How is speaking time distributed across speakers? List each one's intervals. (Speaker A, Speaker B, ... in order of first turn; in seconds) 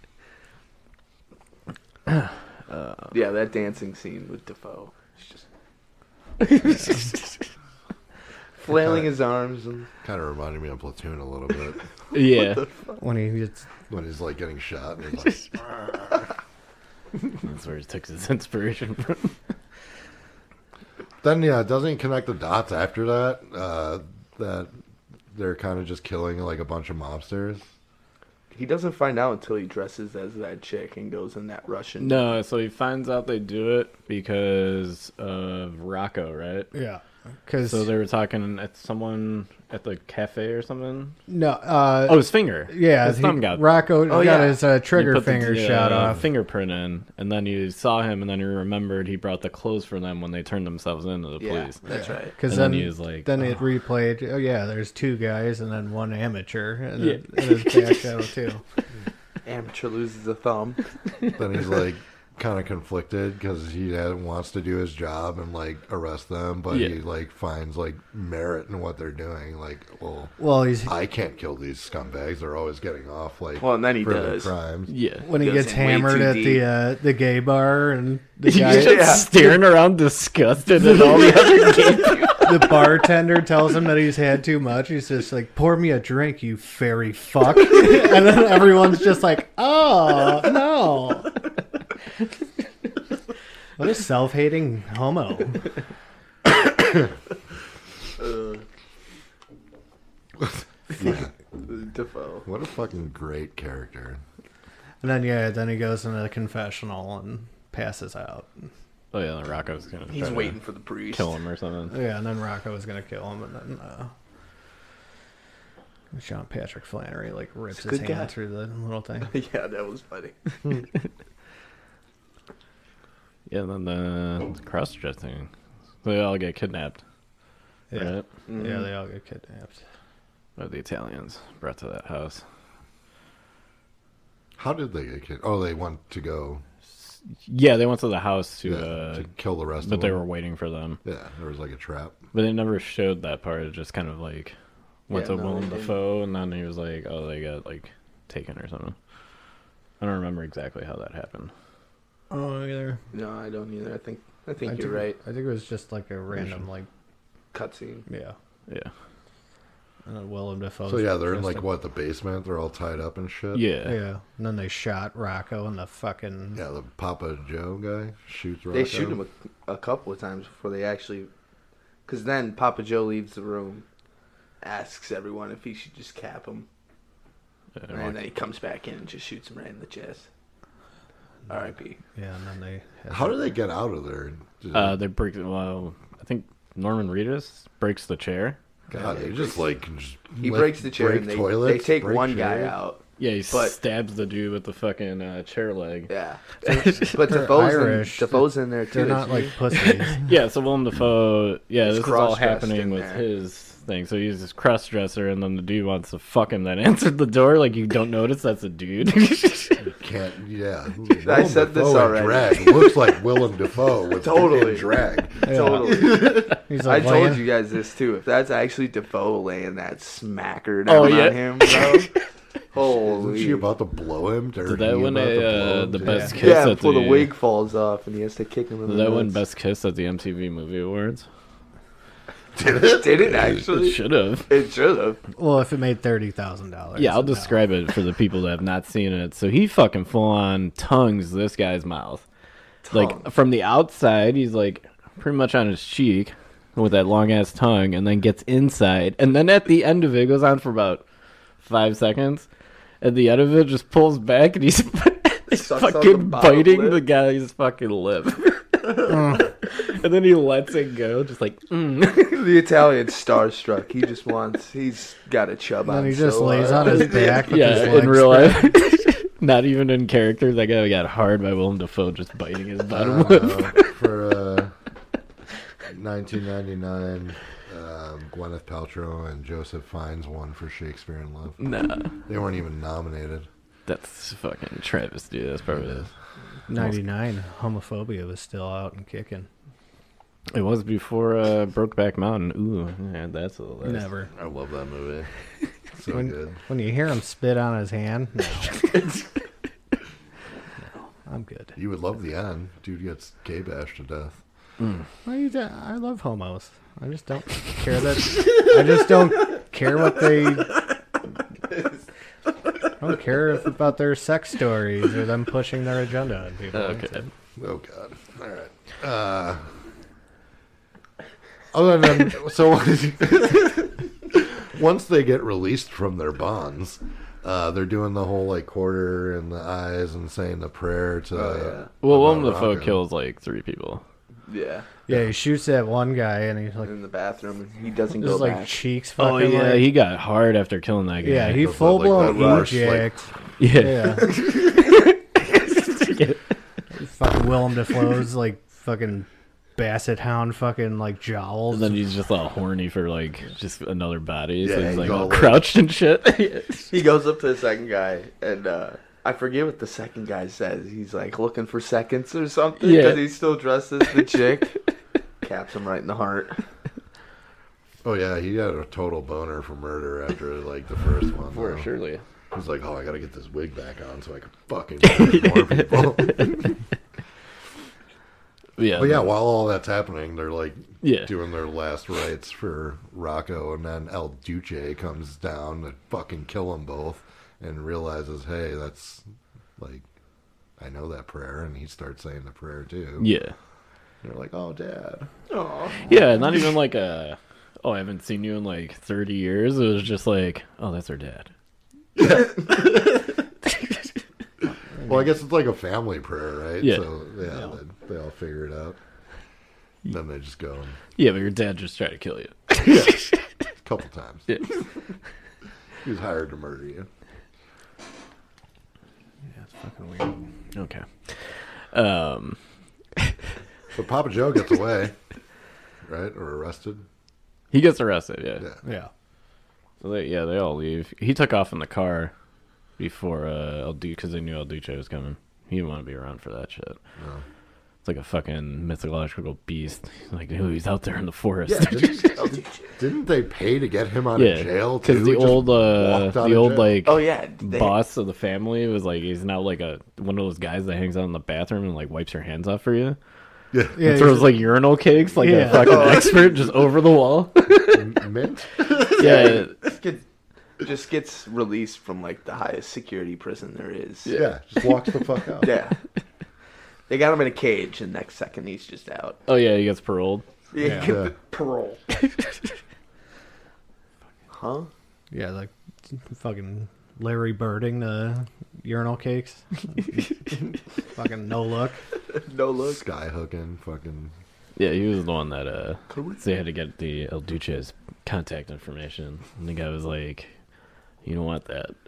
Speaker A: 2.1-3.1, 6.4-7.4, 12.1-12.7, 17.4-19.3, 32.0-36.7, 37.7-41.1, 42.1-43.6, 44.9-51.8, 52.4-53.4, 57.0-58.1, 66.7-67.0, 74.9-75.2, 78.4-82.9, 109.1-111.9, 123.5-125.5, 126.0-127.0, 127.9-128.2, 130.6-132.4, 137.4-139.3, 139.8-141.0, 142.3-144.5, 145.1-148.9, 150.0-151.5, 163.5-163.9, 177.8-178.2, 184.7-188.6, 193.2-196.1, 196.7-197.0, 199.8-209.8, 220.8-222.1, 224.7-227.3, 228.8-231.2, 233.3-234.5, 236.9-242.2, 242.9-251.0, 251.6-252.5, 253.0-262.3, 266.8-273.9, 281.6-282.1, 283.9-286.1, 290.5-294.1, 316.7-317.2, 332.0-334.0, 339.2-341.7, 343.6-346.4, 351.7-356.9, 362.8-363.3, 371.5-372.2, 375.1-376.7, 378.8-379.3, 381.0-381.3, 393.2-393.5, 396.0-401.5, 402.7-403.0, 403.7-403.9, 411.1-413.4, 414.5-414.8, 420.7-422.6, 427.7-428.7, 430.0-432.3, 433.0-437.0, 438.0-442.5, 444.4-453.2, 454.0-458.1, 458.9-459.8, 469.5-470.4, 484.8-490.5, 491.2-491.9
Speaker B: 3.1-5.4, 8.6-9.9, 12.4-13.0, 28.5-32.2, 44.1-44.6, 51.4-52.3, 59.4-60.8, 73.6-74.5, 75.3-76.6, 78.5-79.5, 98.2-98.6, 101.6-102.5, 110.1-111.3, 117.7-118.3, 119.2-120.6, 128.5-128.9, 145.1-146.0, 153.1-155.2, 157.5-158.0, 168.7-171.3, 172.1-173.8, 174.6-176.7, 177.9-180.3, 181.5-182.0, 188.9-189.7, 190.4-193.8, 196.1-199.5, 201.8-203.2, 211.2-212.9, 214.2-214.9, 215.4-222.1, 222.7-223.6, 226.4-229.4, 232.7-235.2, 242.8-243.2, 255.5-257.0, 262.2-267.6, 331.3-331.9, 334.5-334.9, 336.8-338.8, 342.2-342.7, 356.9-364.8, 365.4-366.6, 395.5-396.1, 442.3-442.9, 447.0-448.0, 455.7-456.9, 458.9-460.2, 460.8-464.4, 465.6-465.9, 467.1-469.4, 470.7-472.0, 474.5-474.9, 482.3-483.0, 486.1-486.4
Speaker C: 8.7-9.0, 10.0-11.8, 13.9-16.1, 21.2-24.7, 25.3-27.6, 61.4-74.9, 101.0-101.3, 102.4-104.2, 134.6-136.6, 138.6-140.2, 141.0-142.2, 160.9-163.6, 166.5-169.2, 183.1-185.0, 188.9-192.8, 209.8-216.5, 223.0-226.5, 232.6-233.6, 272.9-274.7, 275.9-281.6, 282.2-283.5, 285.7-286.1, 294.3-295.3, 295.9-296.6, 301.8-304.4, 317.6-319.6, 321.7-333.0, 341.5-343.1, 354.6-355.7, 368.0-371.9, 372.5-376.7, 378.9-389.2, 389.8-390.1, 390.8-393.3, 394.2-395.3, 402.2-402.9, 405.1-409.0, 410.0-411.0, 412.8-413.2, 413.8-414.6, 416.0-417.1, 423.9-425.1, 426.0-427.0, 437.2-437.4, 441.6-447.0, 453.7-454.1, 457.8-459.4, 464.3-465.7, 471.0-471.3, 482.8-484.3
Speaker D: 13.0-13.7, 36.7-37.9, 41.3-46.2, 51.9-58.6, 70.4-70.9, 75.2-79.2, 82.4-91.4, 93.8-95.7, 105.0-108.7, 111.9-114.1, 116.1-119.3, 127.9-129.8, 152.3-153.0, 154.6-156.9, 158.1-158.3, 160.1-161.7, 163.8-166.6, 182.1-183.5, 197.0-200.2, 215.4-217.4, 226.1-226.3, 235.3-237.6, 259.0-259.5, 265.9-268.8, 286.7-289.5, 293.8-294.3, 296.1-298.8, 301.2-301.8, 305.2-310.8, 313.0-317.3, 335.1-336.9, 338.2-339.9, 341.2-344.4, 346.9-352.0, 405.0-405.3, 419.5-420.4, 428.8-429.1, 453.9-454.5, 455.4-456.2, 470.8-471.1, 475.3-480.3, 481.1-482.0